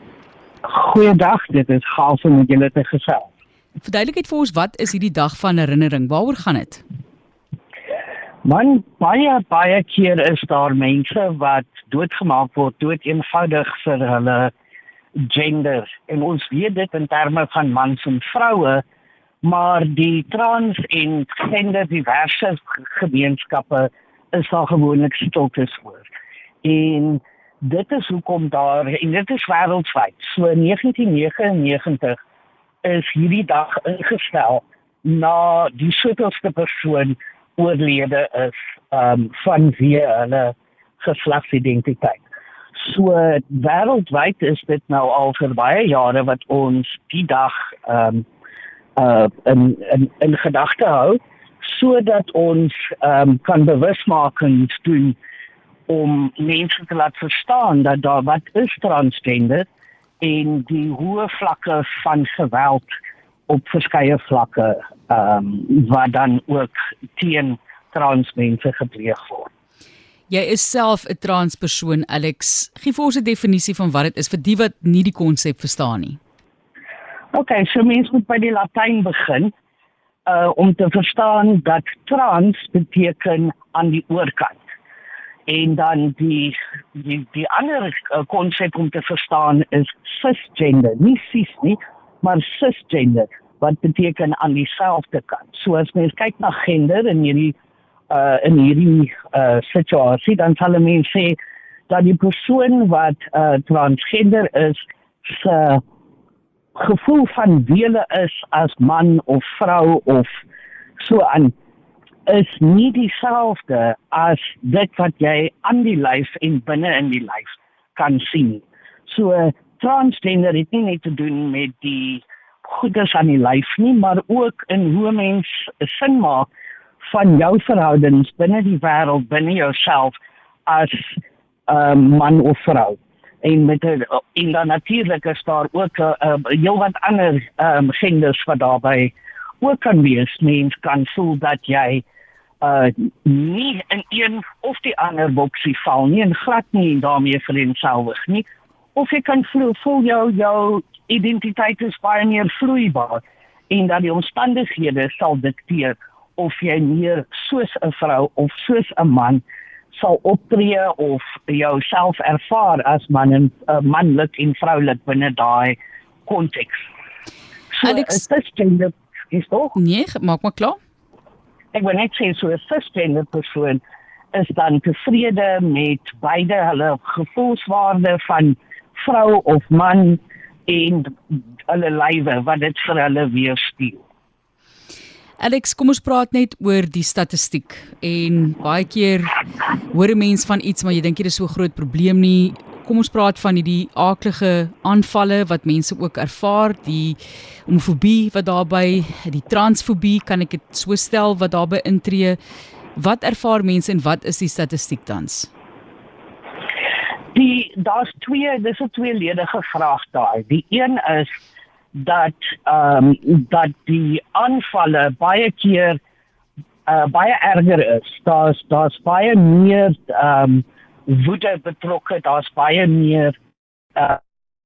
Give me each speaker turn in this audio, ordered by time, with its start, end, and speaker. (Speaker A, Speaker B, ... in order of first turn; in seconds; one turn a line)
Speaker A: 0.7-3.3
Speaker B: 3.8-6.8
Speaker A: 8.4-14.5
Speaker A: 15.2-18.8
Speaker A: 19.4-26.1
Speaker A: 26.6-32.2
Speaker A: 32.8-42.2
Speaker A: 42.8-48.3
Speaker A: 49.0-55.2
Speaker A: 55.9-59.7
Speaker A: 60.2-62.9
Speaker A: 63.5-69.5
Speaker B: 70.3-76.2
Speaker A: 77.3-79.5
Speaker A: 80.3-84.6
Speaker A: 85.5-97.6
Speaker A: 98.1-101.4
Speaker A: 101.9-105.8
Speaker A: 106.8-110.3
Speaker A: 111.0-111.5
Speaker A: 112.3-126.5
Speaker A: 127.0-130.2
Speaker A: 130.7-142.0
Speaker A: 142.6-166.9
Speaker A: 167.7-169.8
Speaker B: 167.8-168.2
Speaker B: 169.8-170.8
Speaker A: 171.7-173.8
Speaker A: 174.3-184.0
Speaker B: 185.4-189.3
Speaker B: 189.9-202.4
Speaker B: 203.0-205.5
Speaker A: 207.3-211.3
Speaker A: 211.9-216.0
Speaker A: 216.9-223.3